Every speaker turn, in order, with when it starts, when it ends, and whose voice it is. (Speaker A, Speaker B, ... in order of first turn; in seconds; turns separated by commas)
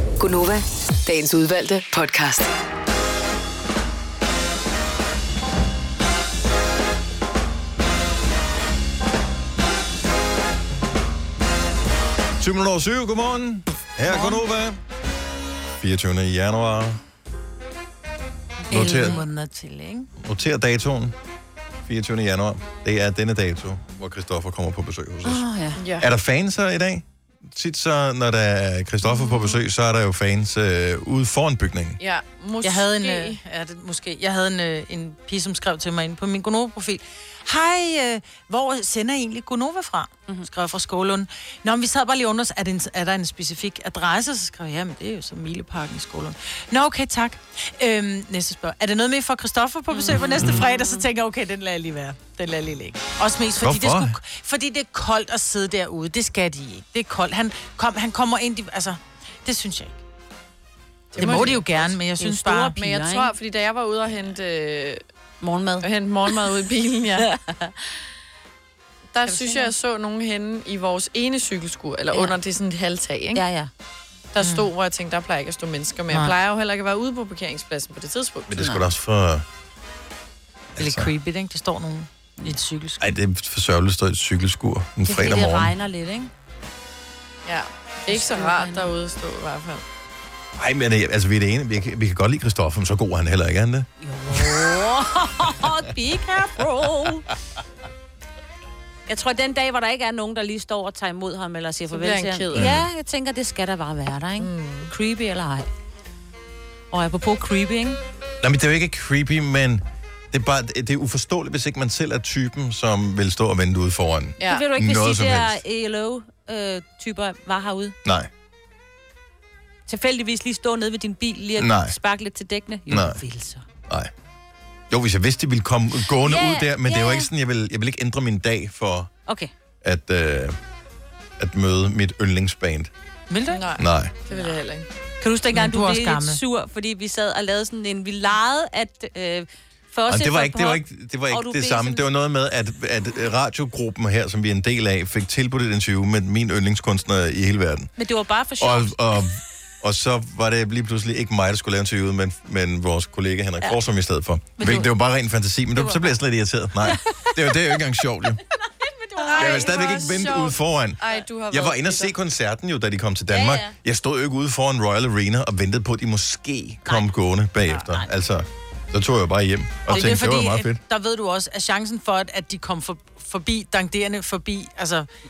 Speaker A: 0.2-2.5, Speaker B: 12.4-14.8, Speaker B: 15.8-17.0, Speaker B: 18.7-19.2, Speaker C: 18.7-19.2, Speaker D: 18.7-20.1, Speaker B: 20.2-21.1, Speaker B: 21.8-25.4, Speaker C: 25.2-25.8, Speaker E: 25.8-26.1, Speaker B: 26.0-32.0, Speaker C: 29.1-29.5, Speaker E: 32.0-33.4, Speaker D: 32.6-60.0, Speaker C: 49.9-51.0, Speaker B: 53.6-54.2, Speaker E: 61.1-61.9, Speaker D: 61.1-62.8, Speaker C: 61.2-61.6, Speaker C: 62.2-63.3, Speaker E: 62.8-65.0, Speaker C: 65.4-65.9, Speaker E: 65.8-67.3, Speaker C: 67.2-67.8, Speaker E: 69.1-73.4, Speaker C: 69.2-69.7, Speaker C: 73.3-73.7, Speaker E: 74.3-78.6, Speaker D: 74.4-74.7, Speaker B: 78.5-79.4, Speaker C: 78.6-78.8, Speaker B: 80.8-81.1, Speaker D: 80.8-83.1, Speaker B: 83.0-85.7, Speaker C: 85.0-86.3, Speaker E: 87.5-89.8, Speaker C: 88.1-88.9, Speaker B: 90.6-93.9, Speaker C: 94.0-97.3, Speaker C: 99.1-105.7, Speaker E: 101.9-102.7, Speaker B: 102.5-102.9, Speaker E: 104.4-104.9, Speaker C: 106.9-108.0, Speaker B: 108.4-115.6, Speaker E: 114.4-114.6, Speaker C: 114.4-118.0, Speaker B: 118.0-118.3, Speaker C: 119.9-123.6, Speaker B: 121.6-121.9, Speaker B: 122.9-123.2, Speaker B: 124.9-129.1, Speaker C: 126.2-127.3, Speaker B: 129.8-130.6, Speaker B: 131.4-132.9, Speaker D: 133.3-133.7, Speaker E: 133.5-134.8, Speaker B: 133.8-134.1, Speaker C: 135.2-142.0, Speaker D: 135.5-136.4, Speaker B: 140.1-147.9, Speaker C: 148.0-149.2, Speaker B: 148.6-158.4, Speaker D: 154.6-154.9, Speaker C: 155.8-156.1, Speaker E: 159.1-162.1, Speaker C: 159.2-159.8, Speaker B: 159.3-170.8, Speaker C: 163.3-163.7, Speaker C: 167.8-168.1, Speaker D: 169.9-175.1